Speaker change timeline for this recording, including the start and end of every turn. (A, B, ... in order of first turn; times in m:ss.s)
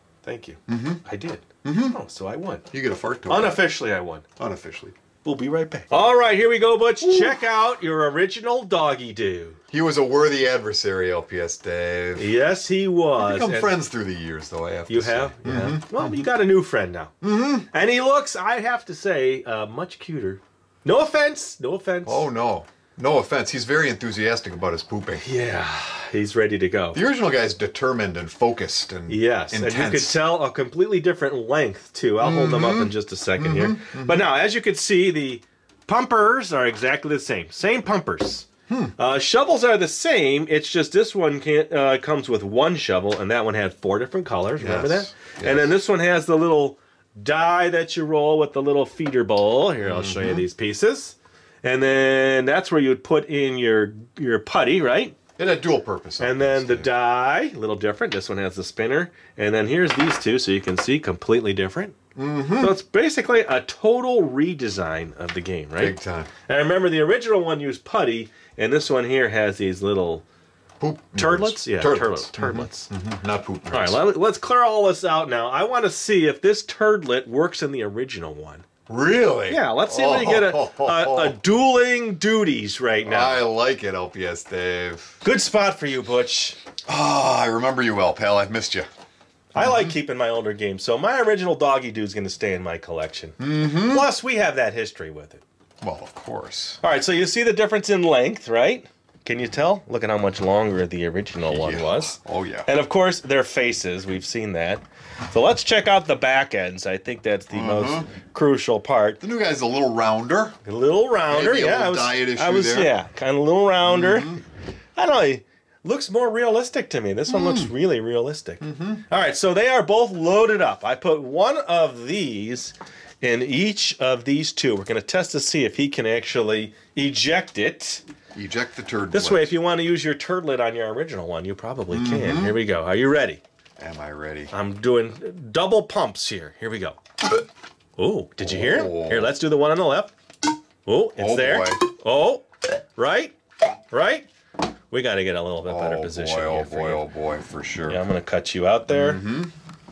0:00.2-0:02.6 A
0:00.7-0:01.0 B
0:01.6-0:02.0 B
0:02.7-0:03.6 B
0:03.3-0:04.2 A
0:04.4-0:05.0 B
0:05.2-0:09.6 A
0:07.0-0:07.4 B
0:09.7-0:12.3 B
0:12.2-0:13.7 A
0:13.2-0:16.2 B
0:14.9-0:17.1 A
0:17.2-0:17.7 B
0:17.7-0:22.3 A
0:22.0-0:25.3 B
0:25.2-0:27.0 A
0:26.9-0:30.2 B
0:29.1-0:55.2 A
0:32.2-0:34.2 B
0:38.7-0:38.9 B
0:44.6-0:45.7 B
0:49.8-0:50.4 B
0:55.4-0:56.9 B
0:56.2-1:02.0 A
1:02.2-1:02.8 B
1:02.6-1:10.2 A
1:05.8-1:06.3 B
1:10.8-1:14.0 B
1:11.1-1:12.9 A
1:13.7-1:18.6 A
1:18.9-1:21.4 B
1:19.5-1:23.4 A
1:23.0-1:25.2 B
1:25.2-1:26.6 A
1:26.9-1:28.9 B
1:29.5-1:35.4 A
1:29.6-1:29.9 B
1:33.4-1:34.1 B
1:35.8-1:36.8 B
1:36.8-1:49.2 A
1:41.5-1:42.7 B
1:47.5-1:48.1 B
1:49.2-1:50.6 B
1:50.6-1:54.4 A
1:51.3-1:52.9 B
1:53.8-1:54.4 B
1:55.0-2:08.0 A
1:57.3-1:57.7 B
1:58.6-1:59.0 B
2:08.3-2:09.5 B
2:09.1-2:13.4 A
2:11.9-2:12.6 B
2:13.8-2:14.5 B
2:14.5-2:17.0 A
2:18.0-2:20.1 A
2:18.4-2:19.3 B
2:20.8-2:23.4 A
2:21.2-2:21.8 B
2:23.9-2:24.3 A
2:24.9-2:27.0 A
2:25.6-2:28.0 B
2:27.9-2:29.2 A
2:28.9-2:29.5 B